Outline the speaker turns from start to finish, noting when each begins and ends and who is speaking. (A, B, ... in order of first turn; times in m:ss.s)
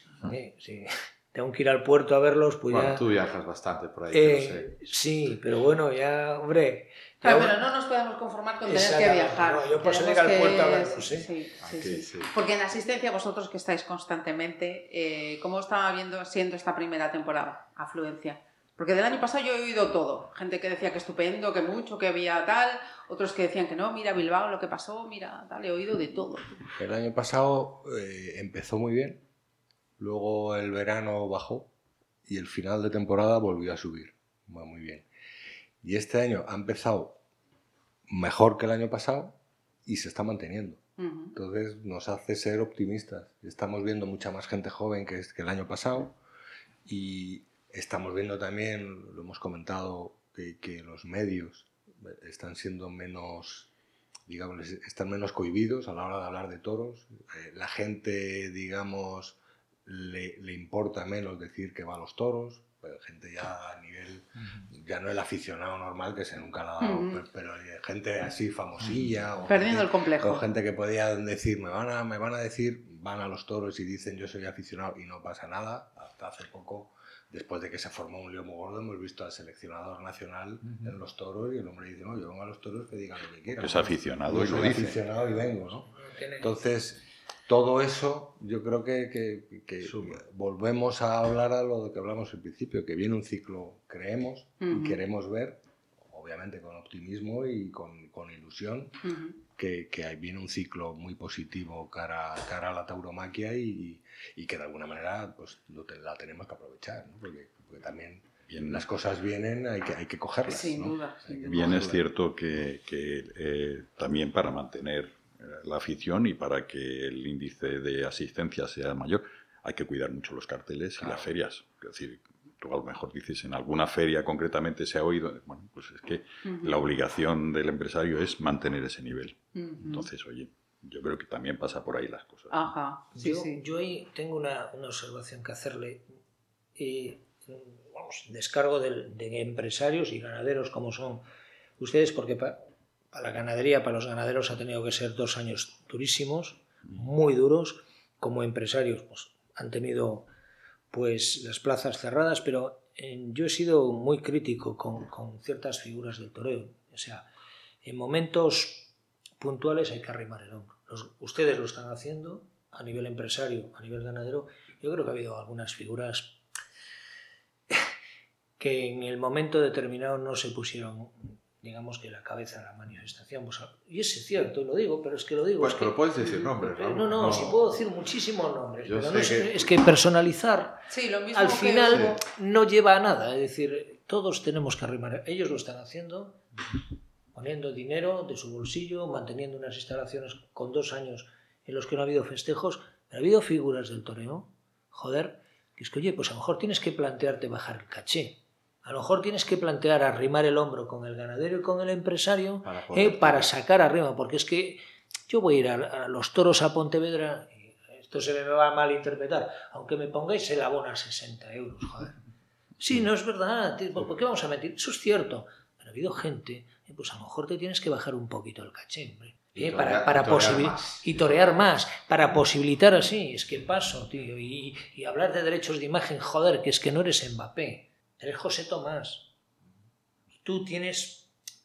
0:00.2-0:03.0 A
0:02.7-0:04.8 B
0:04.1-0:07.6 A
0:07.2-0:26.5 C
0:08.7-0:11.3 A
0:11.6-0:12.2 B
0:26.7-0:29.2 D
0:30.0-0:31.7 D
0:32.3-0:35.1 D
0:35.8-0:37.2 D
0:38.1-0:40.8 D
0:41.0-0:41.4 C
0:41.4-0:46.2 D
0:46.8-0:53.7 D
0:54.3-1:39.0 D
1:06.8-1:07.2 C
1:09.5-1:10.5 C
1:23.6-1:25.0 E
1:25.9-1:26.5 A
1:29.8-1:30.2 B
1:34.6-1:35.0 C
1:39.0-1:39.4 C
1:39.6-1:52.0 D
1:48.5-1:48.8 E
1:50.4-1:52.0 C
1:51.4-2:12.7 E
2:01.0-2:01.3 D
2:06.4-2:06.8 C
2:09.6-2:10.1 C
2:12.5-2:13.6 C
2:13.1-2:16.1 A
2:16.8-2:21.2 A
2:21.8-2:30.3 A
2:30.9-2:37.3 A
2:37.8-2:46.4 A
2:48.6-2:56.0 A
2:55.6-2:57.7 B
2:56.2-2:56.5 C
2:56.6-3:00.8 A
2:58.8-2:59.7 B
3:00.9-3:02.2 C
3:01.3-3:06.4 A
3:01.9-3:02.2 B
3:07.3-3:32.2 A
3:22.6-3:23.5 B
3:32.8-3:49.3 A
3:39.6-3:41.5 B
3:50.4-3:51.3 A